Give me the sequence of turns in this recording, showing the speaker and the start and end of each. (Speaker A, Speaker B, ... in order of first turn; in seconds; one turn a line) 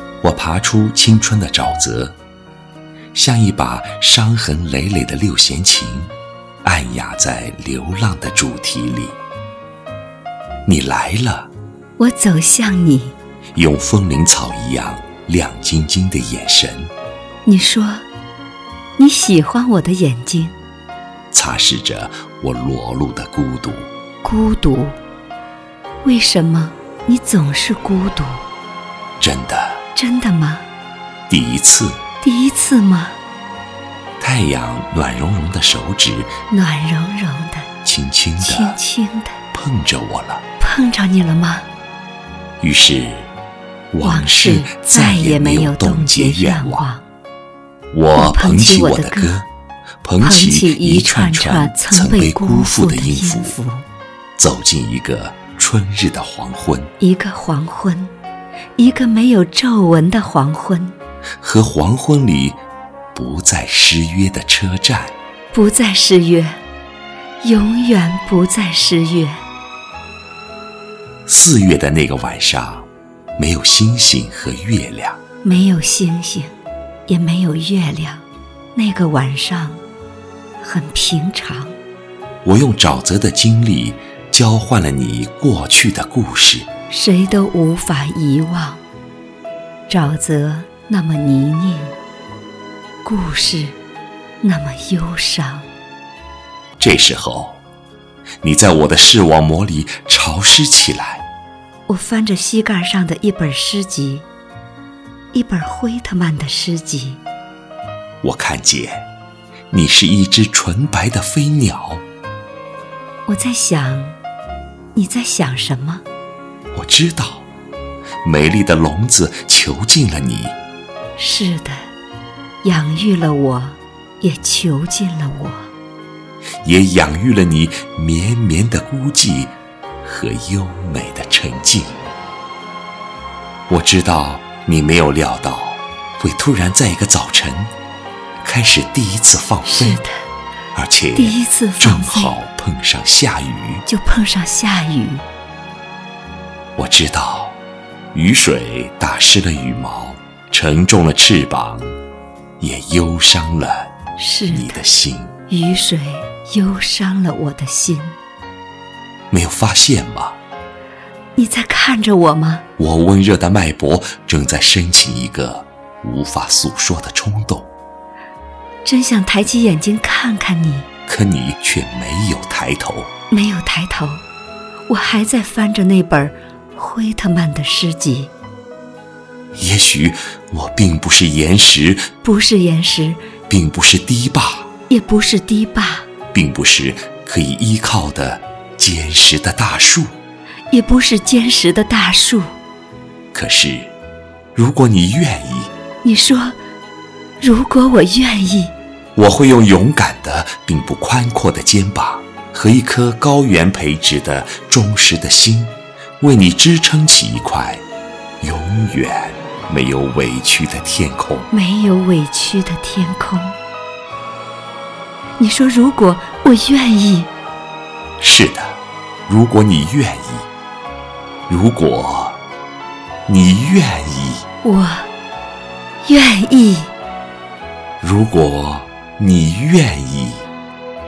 Speaker A: 0.2-2.2
Speaker A: 3.1-6.1
Speaker A: 6.6-9.2
Speaker A: 10.7-11.5
Speaker B: 12.0-13.2
Speaker A: 13.5-16.9
Speaker B: 17.4-18.1
Speaker B: 19.0-20.6
Speaker A: 21.3-23.9
Speaker B: 24.2-25.0
Speaker B: 26.0-28.4
Speaker A: 29.2-29.8
Speaker B: 29.9-30.7
Speaker A: 31.3-32.0
Speaker B: 32.2-33.2
Speaker A: 34.2-36.4
Speaker B: 36.5-37.7
Speaker A: 37.8-38.8
Speaker B: 38.4-39.4
Speaker A: 39.5-40.4
Speaker B: 40.6-41.7
Speaker A: 42.6-43.3
Speaker A: 43.9-46.9
Speaker B: 44.0-47.1
Speaker A: 47.9-49.5
Speaker B: 48.1-49.4
Speaker A: 50.0-53.5
Speaker B: 50.2-53.9
Speaker A: 54.4-56.9
Speaker B: 57.0-58.1
Speaker B: 58.8-60.9
Speaker A: 61.4-62.6
Speaker A: 63.1-65.1
Speaker B: 65.5-66.6
Speaker B: 67.4-69.4
Speaker A: 71.2-75.2
Speaker B: 75.4-76.5
Speaker B: 77.1-79.8
Speaker B: 80.6-81.8
Speaker A: 82.4-86.7
Speaker B: 86.9-88.8
Speaker B: 89.9-92.0
Speaker B: 93.0-93.8
Speaker B: 94.4-95.7
Speaker A: 96.8-97.6
Speaker A: 98.4-101.2
Speaker B: 101.9-104.3
Speaker B: 105.3-107.2
Speaker A: 108.2-109.1
Speaker A: 109.7-112.0
Speaker B: 113.3-114.2
Speaker B: 114.9-116.0
Speaker A: 116.7-117.5
Speaker A: 118.2-120.5
Speaker B: 121.2-121.9
Speaker B: 122.6-125.7
Speaker A: 126.6-132.0
Speaker A: 133.7-137.7
Speaker A: 138.4-140.0
Speaker B: 139.6-140.3
Speaker A: 140.7-143.8
Speaker B: 141.1-142.3
Speaker B: 143.9-145.2
Speaker A: 146.8-147.6
Speaker A: 148.1-151.9
Speaker A: 152.6-153.9
Speaker B: 154.2-154.8
Speaker A: 154.5-155.3
Speaker B: 155.5-158.2
Speaker A: 159.3-160.4
Speaker B: 161.3-162.6
Speaker A: 162.8-167.7
Speaker B: 168.8-170.9
Speaker A: 171.1-173.1
Speaker B: 173.3-174.2
Speaker B: 174.9-178.3
Speaker A: 179.6-182.1
Speaker B: 182.2-183.2
Speaker A: 183.5-184.7
Speaker B: 184.9-186.1
Speaker A: 186.3-190.1
Speaker B: 190.7-192.5
Speaker A: 193.3-193.9
Speaker A: 194.5-195.7
Speaker B: 196.0-196.6
Speaker B: 197.4-198.7
Speaker A: 199.2-207.8
Speaker A: 208.4-211.5
Speaker B: 211.5-213.6
Speaker B: 215.4-217.3
Speaker A: 218.2-220.5
Speaker A: 221.5-222.4
Speaker A: 223.3-224.4
Speaker B: 224.6-225.1
Speaker B: 226.0-226.9
Speaker A: 228.0-230.5